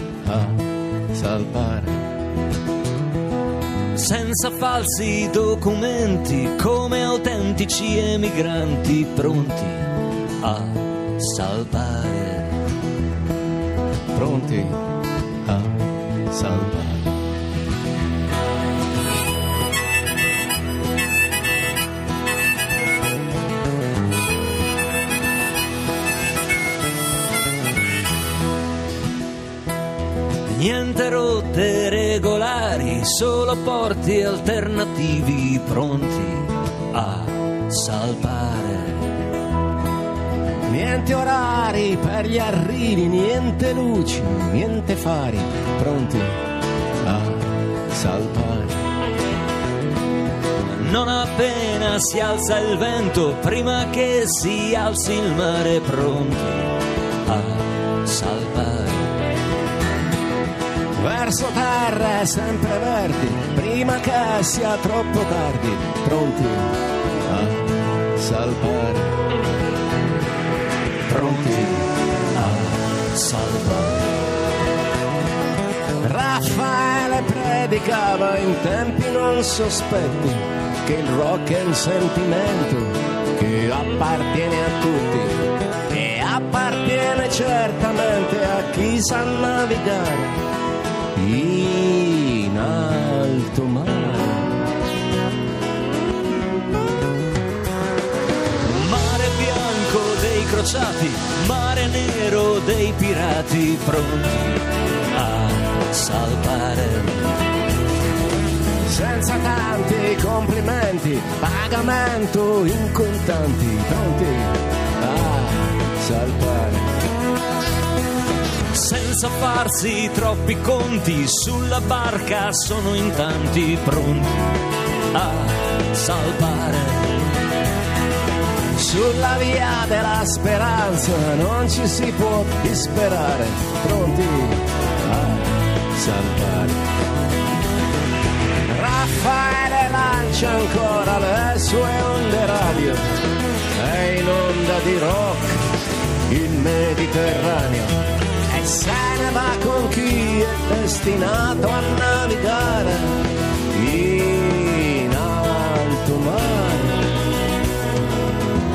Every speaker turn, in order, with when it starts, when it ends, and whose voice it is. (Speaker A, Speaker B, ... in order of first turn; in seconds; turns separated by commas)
Speaker A: 0.2-0.6, Speaker A: 1.1-2.0, Speaker B: 4.0-12.5, Speaker A: 14.1-14.8, Speaker A: 15.4-17.1, Speaker B: 30.5-39.1, Speaker A: 40.7-46.4, Speaker A: 47.0-48.9, Speaker B: 50.8-56.8, Speaker B: 57.3-59.1, Speaker A: 61.0-66.7, Speaker A: 67.2-69.1, Speaker A: 71.1-72.7, Speaker B: 72.4-74.1, Speaker A: 76.0-85.4, Speaker A: 85.9-90.4, Speaker A: 91.2-94.6, Speaker B: 98.6-107.4, Speaker A: 108.9-116.9, Speaker B: 118.7-124.6, Speaker B: 125.1-127.1, Speaker A: 128.8-136.8, Speaker A: 138.7-143.1, Speaker A: 143.7-145.6, Speaker A: 146.3-147.9, Speaker A: 148.5-153.2, Speaker A: 153.7-157.1